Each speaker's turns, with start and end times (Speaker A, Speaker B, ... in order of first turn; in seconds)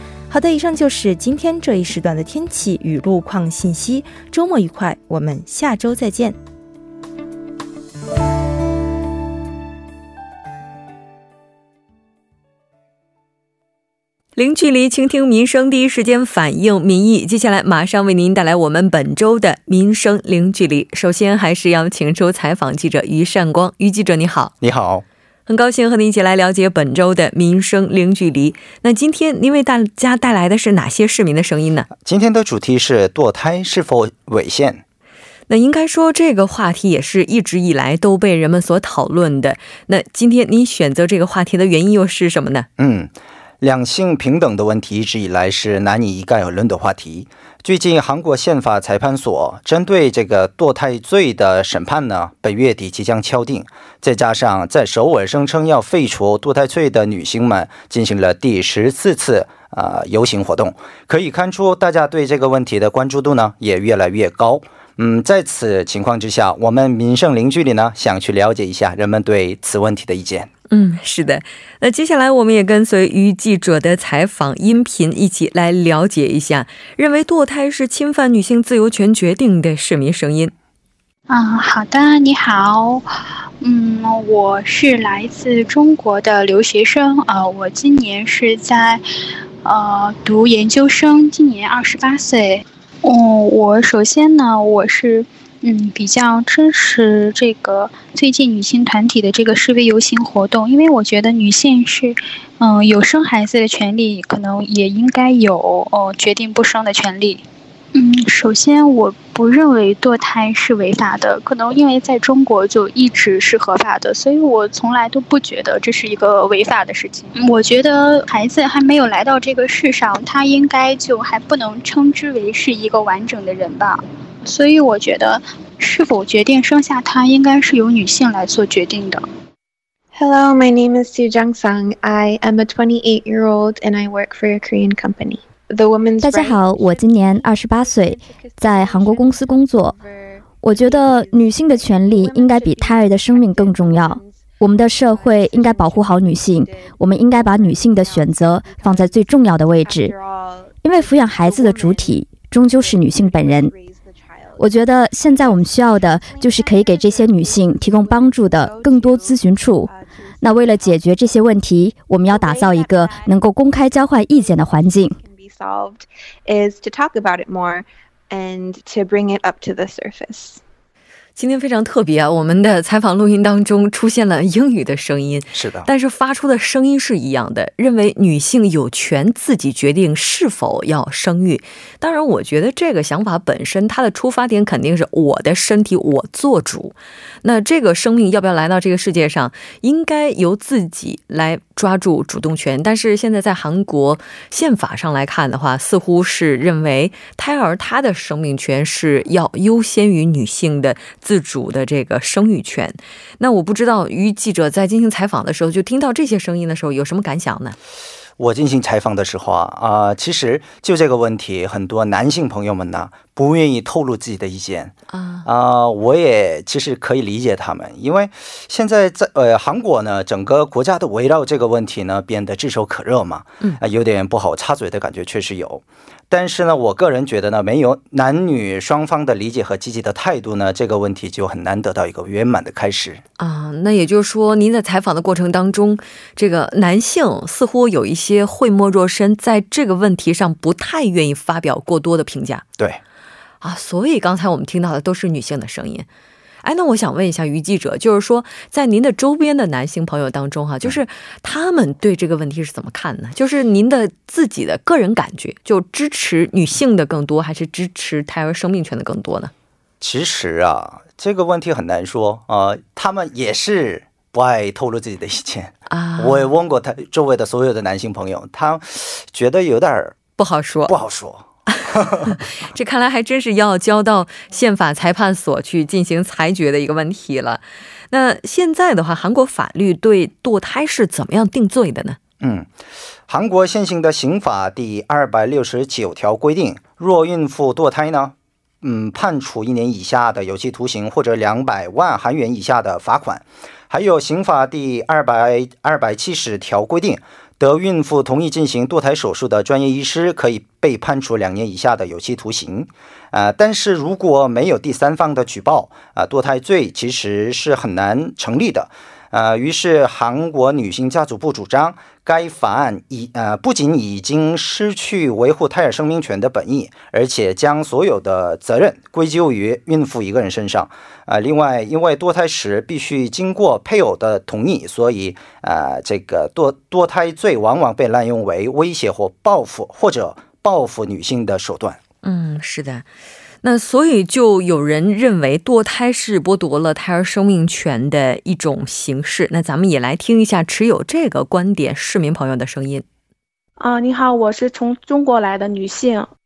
Speaker A: 0.3-6.4
Speaker B: 14.4-24.5, 25.5-31.9, 35.5-42.7, 70.7-80.5, 171.4-207.8, 215.1-215.5, 233.4-242.7, 243.6-246.1, 246.6-259.5, 265.9-266.5, 270.4-271.0, 271.7-282.2, 332.2-333.1, 333.6-343.1
Speaker C: 24.6-25.0, 32.0-34.8, 42.8-70.5, 175.5-175.9, 208.4-214.9, 215.4-233.2, 260.0-270.2, 270.9-272.4, 282.4-282.7, 283.3-332.0
Speaker D: 81.3-83.0, 83.6-89.0, 89.6-107.4, 107.9-129.2
Speaker E: 130.1-161.5, 162.2-170.6
Speaker F: 136.2-139.9, 140.6-150.1, 150.8-153.7, 154.6-165.2
Speaker G: 343.8-346.3